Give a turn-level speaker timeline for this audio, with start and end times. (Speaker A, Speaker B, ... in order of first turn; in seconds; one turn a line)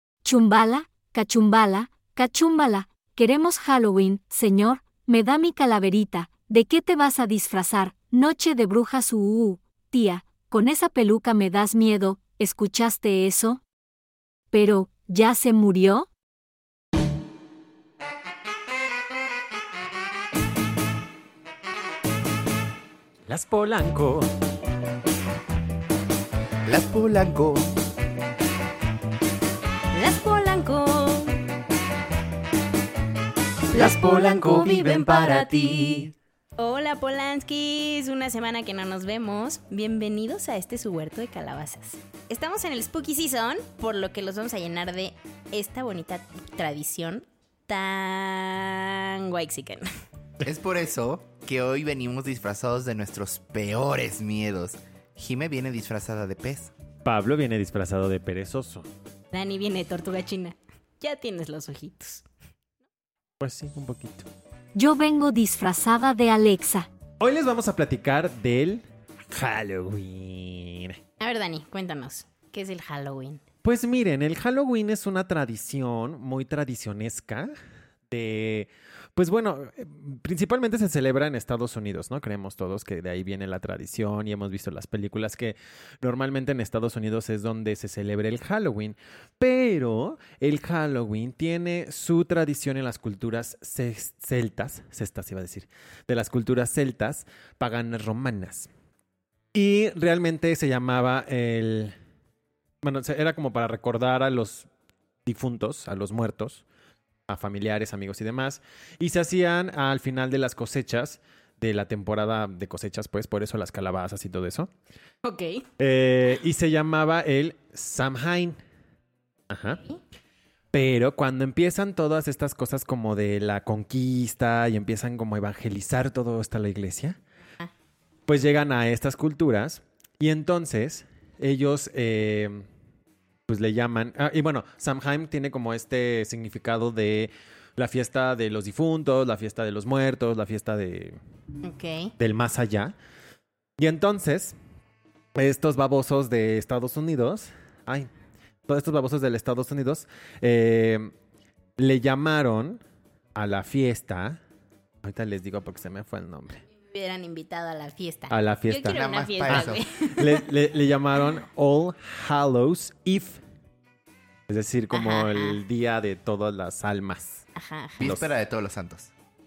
Speaker A: 0.2-13.6
Speaker A: 14.5-16.1
Speaker B: 23.3-24.3
Speaker C: 26.7-27.7
Speaker D: 29.9-31.4
Speaker D: 33.7-36.0
Speaker B: 33.7-36.0
Speaker C: 33.7-36.1
Speaker D: 36.6-49.9
Speaker C: 50.4-56.7
Speaker B: 57.0-58.9
Speaker D: 59.3-62.2
Speaker B: 63.4-64.3
Speaker A: 64.8-66.9
Speaker B: 67.2-71.0
Speaker D: 71.2-73.4
Speaker B: 73.6-77.5
Speaker B: 78.1-98.7
Speaker B: 99.5-102.0
Speaker B: 102.8-104.7
Speaker B: 105.3-106.6
Speaker B: 107.3-114.7
Speaker D: 115.2-115.7
Speaker B: 115.8-118.6
Speaker B: 119.5-119.8
Speaker B: 120.7-127.2
Speaker B: 128.3-132.6
Speaker B: 133.5-141.2
Speaker D: 141.6-142.1
Speaker B: 142.2-142.9
Speaker B: 143.8-144.6
Speaker B: 145.3-148.1
Speaker B: 148.7-151.1
Speaker B: 151.8-152.8
Speaker B: 153.3-154.4
Speaker B: 155.0-156.6
Speaker D: 156.8-160.4
Speaker B: 158.3-163.4
Speaker C: 158.9-159.8
Speaker B: 164.5-167.4
Speaker D: 164.9-165.6
Speaker D: 167.6-168.2
Speaker C: 168.0-169.1